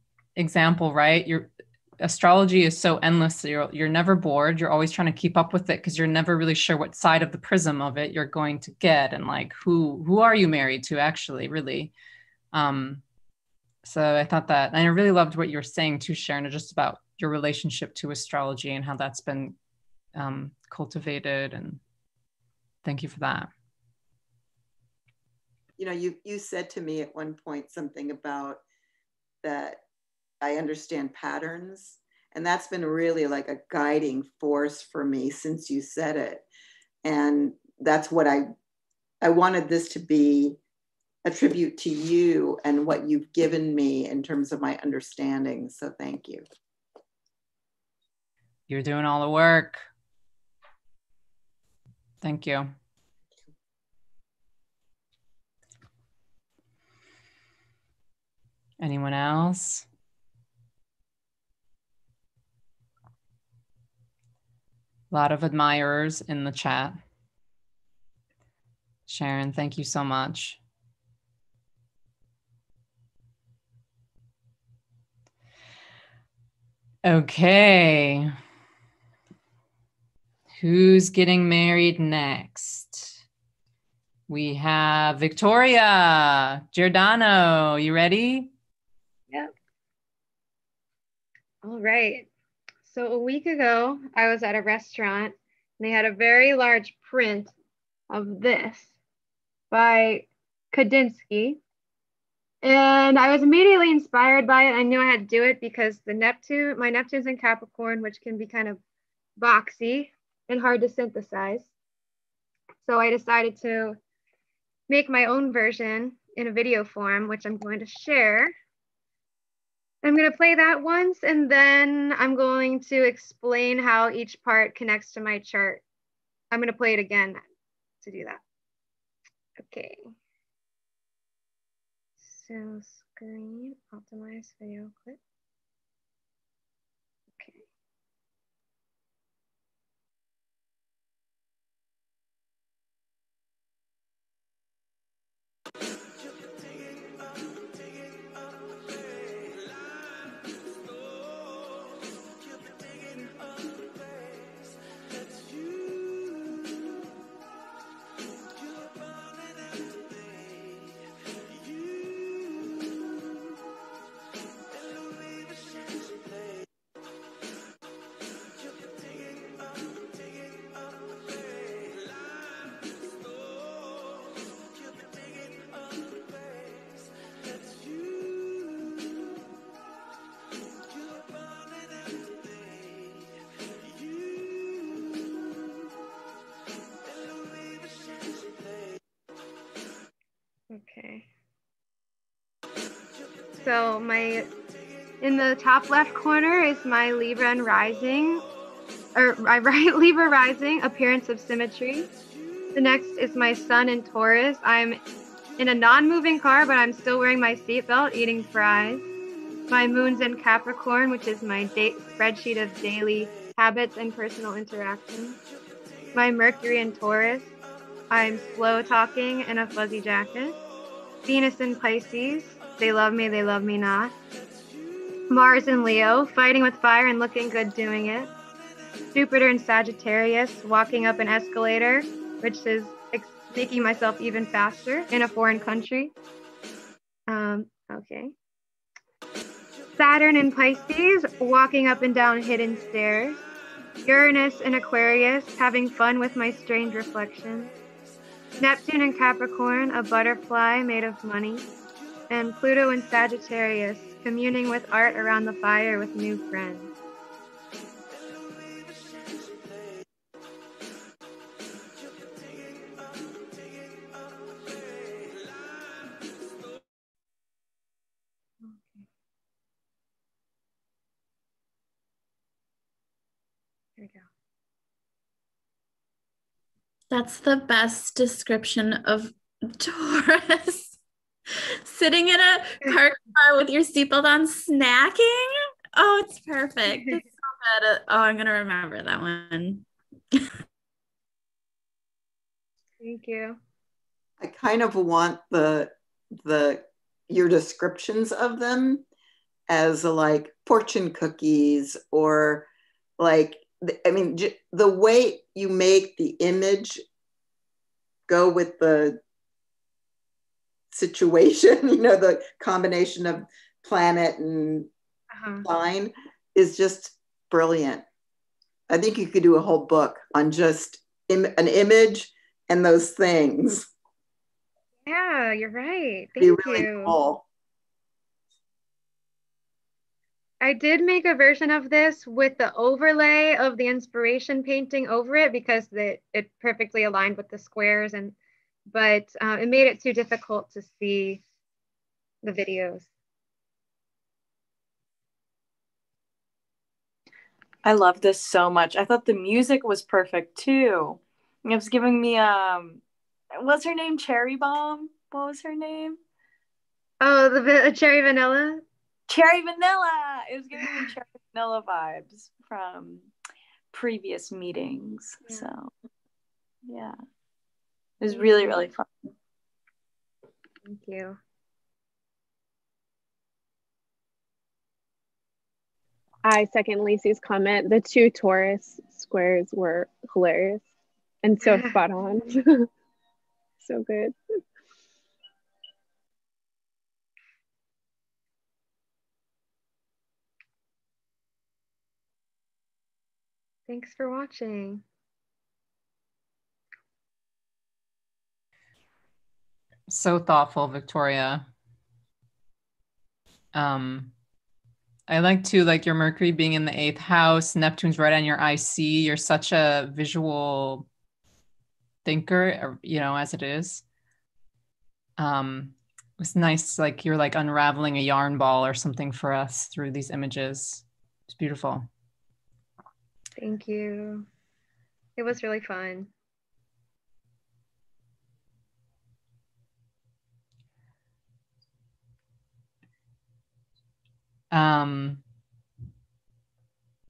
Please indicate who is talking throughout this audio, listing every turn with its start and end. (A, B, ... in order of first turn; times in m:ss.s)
0:00.4-0:11.9 A
0:12.5-0:13.0 A
0:13.8-0:19.6 A
0:20.2-0:21.8 A
0:22.8-0:23.5 A
0:25.8-0:28.6 B
0:29.4-0:29.8 B
0:30.4-0:36.4 B
0:37.0-0:38.5 B
0:39.2-0:40.6 B
0:41.2-0:46.4 B
0:48.7-0:49.8 A
0:52.2-0:52.7 A
0:58.8-0:59.8 A
1:05.1-1:07.0 A
1:09.1-1:10.6 A
1:17.0-1:18.3 A
1:20.6-1:23.2 A
1:24.3-1:28.5 A
1:31.6-1:32.3 C
1:32.8-1:37.5 C
1:38.1-1:38.9 C
1:39.7-1:41.6 C
1:42.6-1:48.8 C
1:49.4-1:51.7 C
1:52.8-1:54.0 C
1:54.9-1:58.5 C
2:00.0-2:05.8 C
2:06.5-2:07.4 C
2:08.0-2:08.4 C
2:09.6-2:10.1 C
2:12.2-2:15.2 C
2:17.4-2:17.6 C
3:10.7-3:11.3 C
3:13.6-3:14.5 C
3:15.2-3:18.4 C
3:19.2-3:22.1 C
3:22.8-3:25.0 C
3:25.6-3:29.0 C
3:29.7-3:35.4 C
3:36.2-3:37.6 C
3:38.1-3:40.6 C
3:41.3-3:44.1 C
3:45.3-3:48.3 C
3:49.1-3:56.1 C
3:57.3-3:58.3 C
4:00.0-4:03.4 C
4:04.0-4:07.7 C
4:08.6-4:11.7 C
4:12.3-4:16.9 C
4:28.6-4:29.1 C
4:34.0-4:34.2 C
4:37.1-4:41.0 D
4:41.8-4:49.9 D
4:53.0-4:53.6 C
4:54.4-4:59.0 B
4:59.7-5:02.7 B
5:03.2-5:07.0 B
5:08.3-5:09.2 B
5:10.9-5:14.9 B
5:15.3-5:15.6 C
5:15.6-5:18.0 B
5:18.9-5:23.9 B
5:25.1-5:27.1 C
5:26.4-5:27.4 B
5:30.6-5:38.4 C
5:38.9-5:41.4 C
5:42.4-5:43.1 C
5:47.8-5:56.2 E
5:57.2-5:58.8 C
5:59.3-6:03.3 E
6:03.9-6:05.9 E
6:06.8-6:07.2 E
6:08.2-6:09.1 E
6:08.3-6:08.8 C
6:10.8-6:11.4 C
6:16.4-6:20.8 F
6:21.4-6:22.9 F
6:21.6-6:22.0 C
6:23.8-6:24.4 F
6:33.9-6:35.0 C
6:40.1-6:41.7 A
6:43.8-6:44.3 A
6:45.3-6:51.1 A
6:52.2-6:54.0 A
6:55.4-7:02.1 A
7:03.6-7:04.5 C
7:05.4-7:06.3 C
7:14.7-7:15.4 A